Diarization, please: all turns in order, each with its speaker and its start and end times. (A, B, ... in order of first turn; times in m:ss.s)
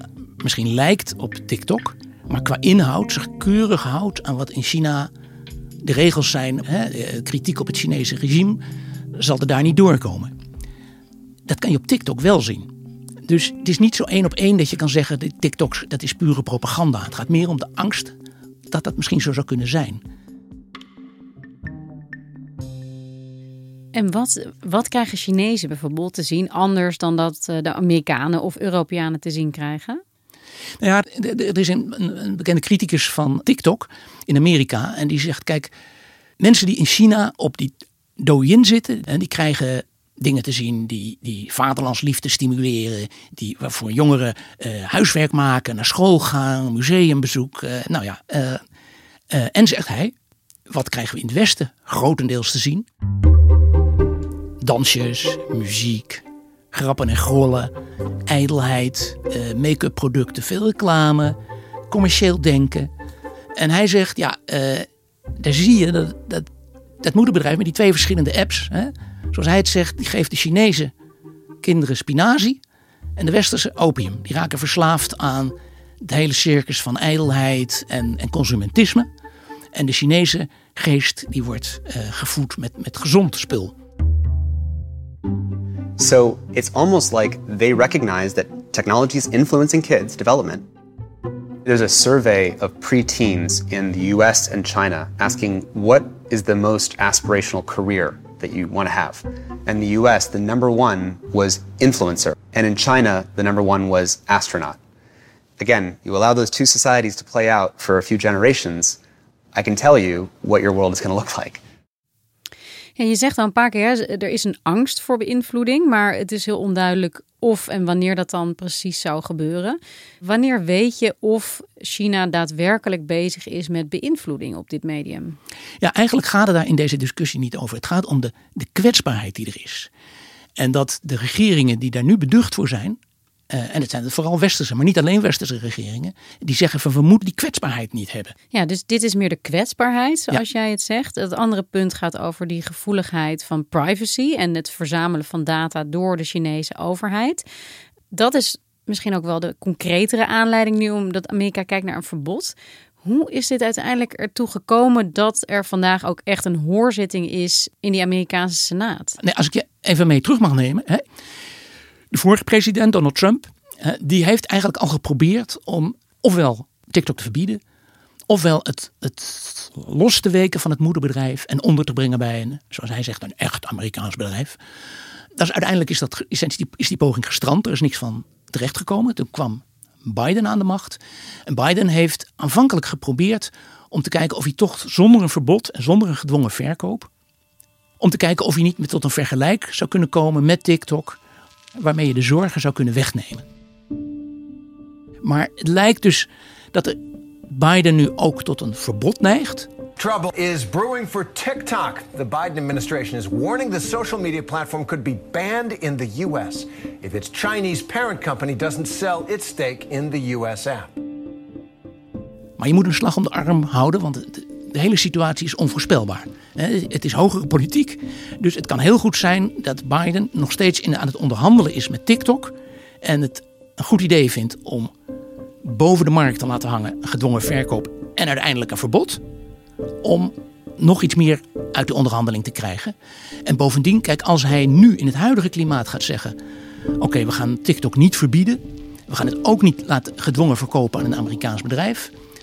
0:00.4-0:05.1 A
0:05.8-0:08.6 A
0:09.1-0:10.3 A
0:11.5-0:12.7 A
0:13.2-0:18.1 A
0:18.7-0:20.0 A
0:23.9-0:30.0 B
0:30.8-0:35.7 A
0:36.4-0:48.6 A
0:49.3-0:50.1 A
0:50.7-0:52.8 A
0:54.6-0:57.7 A
0:58.3-1:01.4 A
1:01.9-1:02.9 A
1:03.6-1:04.8 A
1:05.4-1:06.5 A
1:07.0-1:10.9 A
1:11.6-1:12.6 A
1:13.2-1:19.1 A
1:19.7-1:23.7 A
1:26.0-1:30.6 C
1:31.6-1:44.8 C
1:45.6-1:49.0 C
1:49.5-1:51.6 C
1:53.0-2:05.4 B
2:05.8-2:09.9 A
2:10.6-2:13.0 A
2:13.5-2:18.3 A
2:18.5-2:27.4 B
2:28.1-2:39.2 B
2:39.2-2:41.0 A
2:42.1-2:47.6 A
2:48.3-2:54.6 A
2:55.4-3:07.1 A
3:08.0-3:11.2 A
3:11.8-3:13.4 A
3:15.2-3:17.0 A
3:17.5-3:19.7 A
3:20.0-3:30.9 D
3:32.6-3:44.9 A
3:45.6-3:49.2 A
3:50.0-3:52.9 A
3:53.4-3:56.4 A
3:57.0-4:02.1 A